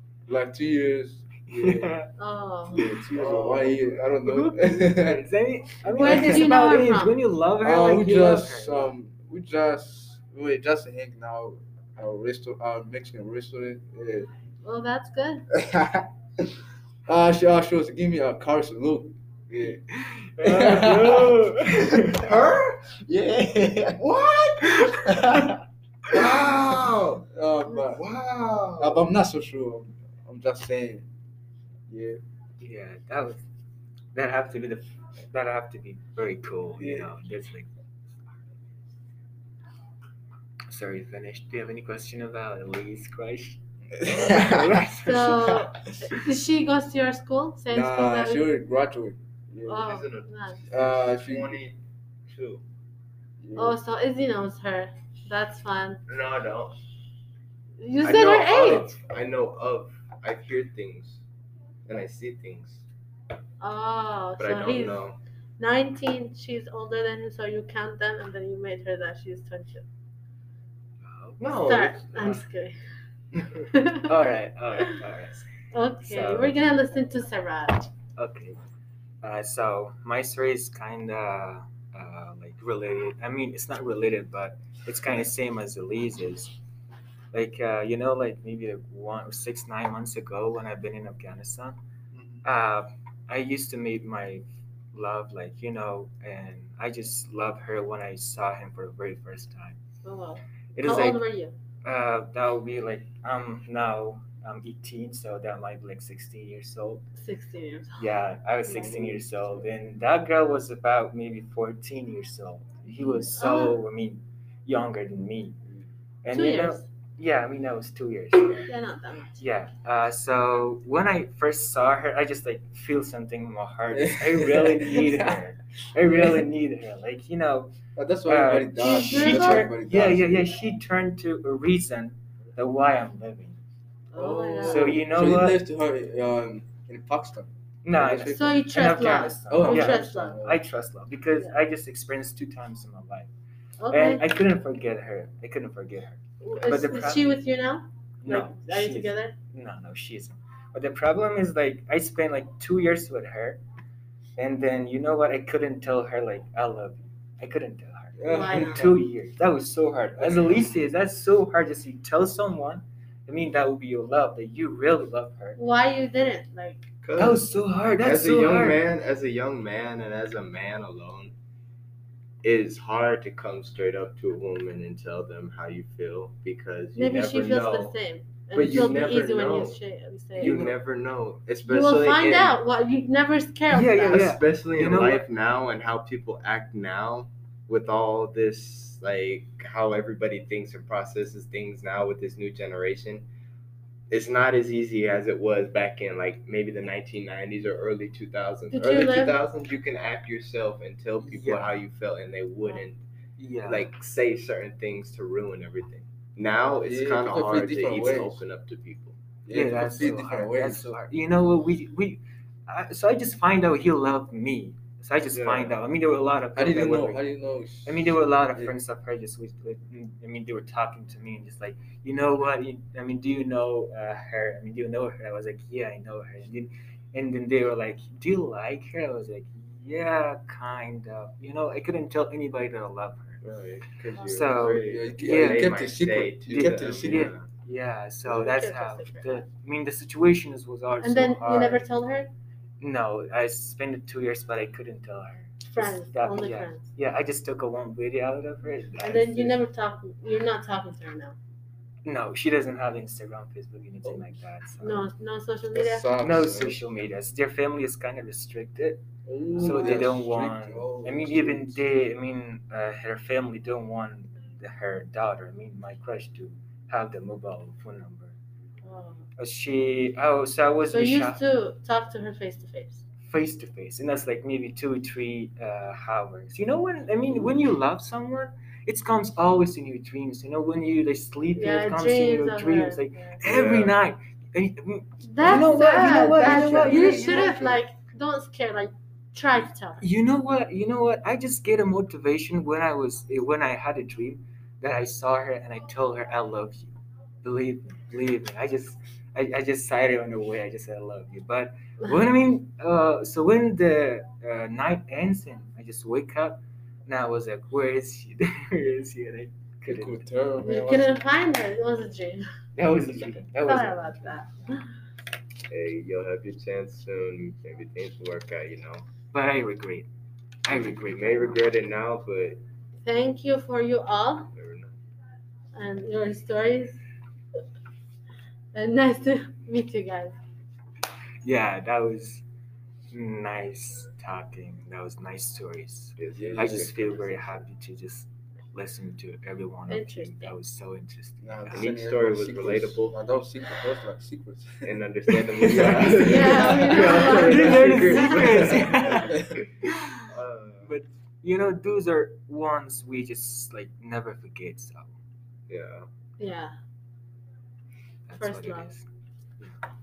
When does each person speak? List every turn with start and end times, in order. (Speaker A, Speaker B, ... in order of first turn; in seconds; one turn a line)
Speaker A: 0.3-1.9
Speaker B: 1.5-2.1
Speaker C: 2.2-2.9
Speaker B: 2.7-3.4
Speaker A: 2.8-5.2
Speaker D: 3.1-4.0
Speaker B: 4.2-8.9
Speaker C: 5.8-7.2
Speaker A: 5.9-6.5
Speaker A: 7.6-14.3
Speaker C: 14.6-15.4
Speaker A: 15.6-16.0
Speaker A: 17.1-19.8
Speaker B: 19.6-22.3
Speaker A: 20.4-21.4
Speaker D: 22.1-24.8
Speaker B: 24.8-25.4
Speaker D: 26.1-27.2
Speaker A: 27.3-28.0
Speaker D: 27.9-29.1
Speaker A: 28.8-31.1
Speaker A: 31.9-32.2
Speaker B: 32.6-33.4
Speaker B: 34.1-37.7
Speaker A: 36.8-37.1
Speaker B: 40.7-45.7
Speaker A: 44.0-44.7
Speaker C: 45.0-48.5
Speaker A: 47.7-49.9
Speaker C: 49.6-50.6
Speaker D: 49.8-52.6
Speaker A: 50.7-51.6
Speaker A: 53.4-53.8
Speaker C: 53.5-56.0
Speaker D: 56.1-56.8
Speaker C: 57.8-58.9
Speaker D: 58.0-61.2
Speaker D: 61.9-62.8
Speaker C: 63.6-65.0
Speaker D: 64.4-65.2
Speaker C: 65.6-69.8
Speaker B: 71.0-71.4
Speaker D: 71.4-72.4
Speaker C: 71.5-72.7
Speaker C: 73.7-74.1
Speaker B: 74.0-75.5
Speaker C: 75.7-77.9
Speaker B: 76.0-76.6
Speaker B: 78.2-78.6
Speaker B: 79.2-86.5
Speaker B: 87.3-91.8
Speaker A: 92.1-92.4
Speaker B: 92.4-99.8
Speaker C: 100.0-101.5
Speaker B: 100.7-101.2
Speaker B: 101.8-107.0
Speaker C: 107.2-108.0
Speaker B: 108.0-115.5
Speaker C: 108.7-109.0
Speaker A: 108.7-109.7
Speaker C: 112.9-113.8
Speaker B: 116.2-118.7
Speaker C: 116.3-116.8
Speaker C: 118.6-119.4
Speaker B: 119.4-127.7
Speaker A: 123.9-125.4
Speaker A: 126.0-126.4
Speaker A: 128.0-130.5
Speaker B: 128.2-133.6
Speaker C: 128.8-129.7
Speaker C: 134.1-135.0
Speaker A: 134.1-138.6
Speaker B: 134.6-135.6
Speaker B: 137.8-143.3
Speaker C: 138.3-140.4
Speaker A: 139.5-140.6
Speaker C: 143.8-144.2
Speaker B: 143.9-147.3
Speaker C: 146.4-149.3
Speaker B: 148.2-153.6
Speaker B: 154.4-165.6
Speaker A: 158.2-159.0
Speaker C: 158.2-158.8
Speaker C: 165.6-166.9
Speaker D: 167.0-167.5
Speaker B: 167.2-168.8
Speaker D: 168.0-171.3
Speaker D: 172.4-177.9
Speaker C: 176.9-180.7
Speaker D: 178.5-179.8
Speaker D: 180.3-182.6
Speaker B: 180.4-180.7
Speaker C: 181.6-184.3
Speaker B: 183.7-185.2
Speaker D: 184.0-193.2
Speaker D: 194.1-203.0
Speaker C: 198.7-199.4
Speaker B: 201.2-201.8
Speaker B: 203.4-203.9
Speaker D: 203.6-209.2
Speaker A: 206.8-208.4
Speaker A: 209.4-210.9
Speaker B: 209.5-217.2
Speaker A: 215.3-215.7
Speaker A: 216.5-218.7
Speaker B: 217.8-233.4
Speaker D: 233.4-237.4
Speaker B: 234.2-235.9
Speaker A: 234.8-237.3
Speaker B: 236.4-241.8
Speaker C: 238.2-239.4
Speaker C: 241.0-242.3
Speaker B: 242.8-249.4
Speaker C: 245.7-246.9
Speaker C: 249.0-251.3
Speaker A: 249.1-249.6
Speaker B: 252.0-255.0
Speaker C: 254.8-256.1
Speaker A: 255.7-256.8
Speaker B: 256.2-259.0
Speaker A: 259.2-261.8
Speaker B: 259.6-268.3
Speaker C: 268.8-269.2
Speaker B: 269.4-271.4
Speaker C: 270.9-273.0
Speaker B: 273.2-287.5
Speaker C: 281.5-283.4
Speaker D: 283.4-283.9
Speaker C: 285.2-290.1
Speaker A: 285.4-287.8
Speaker B: 290.0-310.2
Speaker A: 309.8-311.2
Speaker C: 310.6-312.5
Speaker B: 312.8-314.4
Speaker C: 313.6-314.8
Speaker D: 315.7-319.0
Speaker B: 319.3-320.1
Speaker B: 320.6-321.8
Speaker D: 320.7-322.6
Speaker C: 323.0-324.5
Speaker D: 324.5-324.9
Speaker C: 325.7-327.0
Speaker C: 328.7-330.4
Speaker B: 331.4-332.4
Speaker B: 333.1-341.9
Speaker D: 336.2-336.9
Speaker A: 336.3-337.4
Speaker C: 339.9-340.5
Speaker A: 341.4-344.9
Speaker D: 341.7-343.2
Speaker D: 344.8-349.5
Speaker A: 345.6-346.9
Speaker C: 346.2-348.9
Speaker B: 346.9-350.1
Speaker D: 350.3-350.9
Speaker B: 350.8-355.1
Speaker D: 355.7-356.1
Speaker C: 356.4-356.7
Speaker B: 358.3-359.0
Speaker C: 358.4-358.9